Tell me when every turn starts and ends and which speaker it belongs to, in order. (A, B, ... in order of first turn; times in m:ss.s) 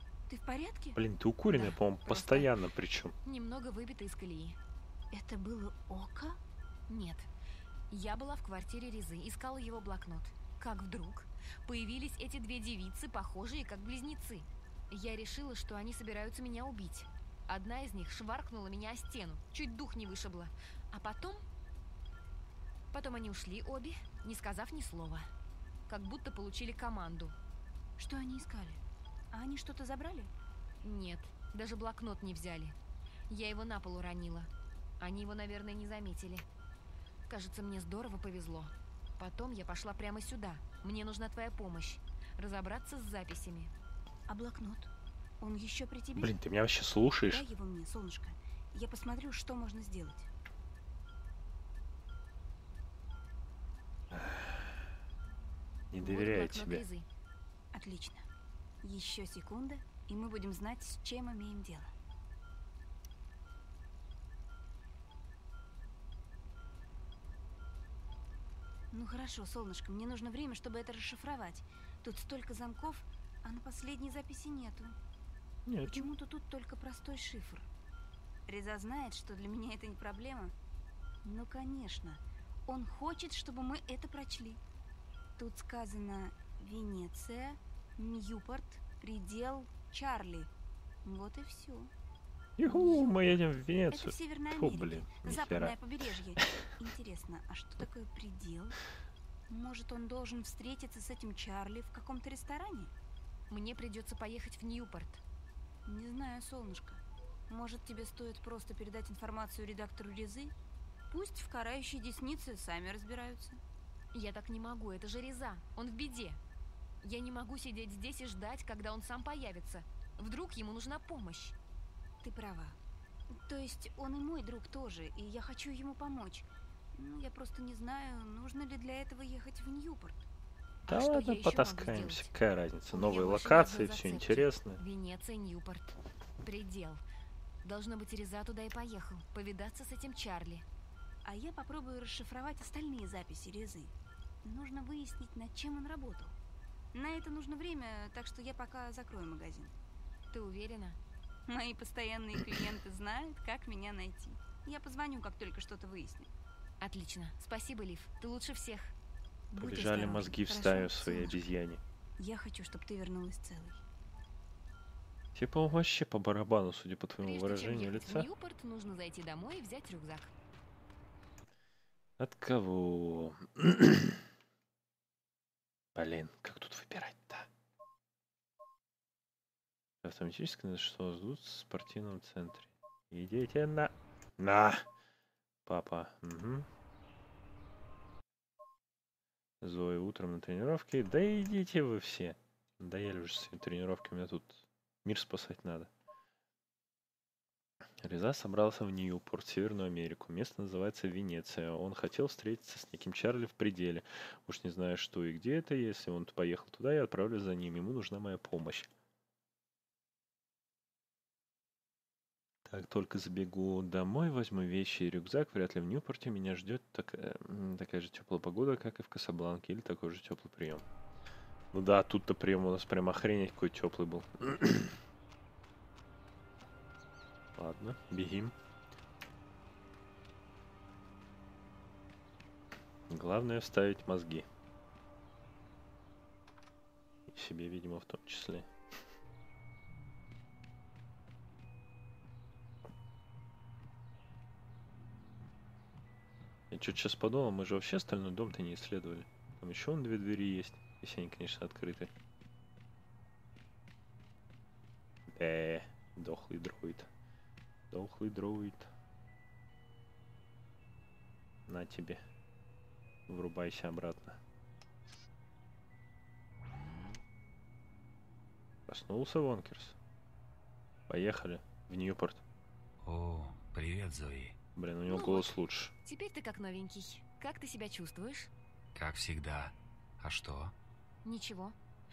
0:00.3-0:01.0 A
0:01.0-0:03.1 B
0:01.5-0:02.5 C
0:03.2-0:04.6 C
0:05.1-0:06.4 A
0:06.9-0:07.3 C
0:07.9-0:21.4 C
0:22.9-0:25.3 C
0:25.9-0:27.4 C
0:28.0-0:30.3 A
0:30.8-0:32.8 C
0:33.3-0:36.4 C
0:37.3-0:43.7 C
0:44.3-0:46.3 A
0:46.2-0:47.5 B
0:47.3-0:50.3 A
0:54.1-0:54.8 B
0:55.9-0:56.8 B
0:56.0-0:57.1 C
0:57.7-0:58.2 A
0:58.8-1:01.9 A
1:08.9-1:14.9 A
1:15.6-1:16.1 B
1:15.8-1:17.7 A
1:18.5-1:20.5 A
1:21.2-1:24.6 A
1:25.4-1:30.5 A
1:31.0-1:31.9 A
1:32.6-1:35.8 B
1:32.6-1:33.2 A
1:33.9-1:38.8 A
1:39.5-1:42.9 A
1:43.5-1:45.2 C
1:45.8-1:50.5 A
1:51.1-1:53.6 A
1:54.1-1:56.4 C
1:57.0-2:01.5 C
2:02.2-2:02.8 A
2:03.3-2:10.2 A
2:10.9-2:12.3 C
2:10.9-2:14.8 B
2:12.9-2:17.0 C
2:17.6-2:20.6 C
2:21.2-2:26.4 A
2:26.9-2:29.7 A
2:30.3-2:31.0 C
2:31.5-2:36.3 A
2:36.8-2:38.9 C
2:39.5-2:41.4 A
2:39.6-2:41.8 B
2:42.2-2:43.8 A
2:45.3-2:48.3 B
2:47.2-2:50.3 C
2:52.2-2:54.2 B
2:55.9-2:57.5 B
3:00.0-3:04.8 B
3:05.6-3:06.7 B
3:09.6-3:15.9 B
3:18.0-3:28.9 B
3:32.6-3:40.8 B
3:41.7-3:45.0 B
3:47.6-3:48.5 B
3:53.1-3:54.4 B
3:57.3-3:58.7 B
4:06.7-4:12.1 B
4:15.3-4:17.1 B
4:17.9-4:18.9 B
4:21.7-4:22.2 B
4:23.3-4:24.4 B
4:28.9-4:29.9 B
4:31.1-4:32.4 B
4:33.0-4:34.6 D
4:34.8-4:35.9 B
4:35.1-4:38.5 C
4:38.9-4:40.7 D
4:41.2-4:41.8 C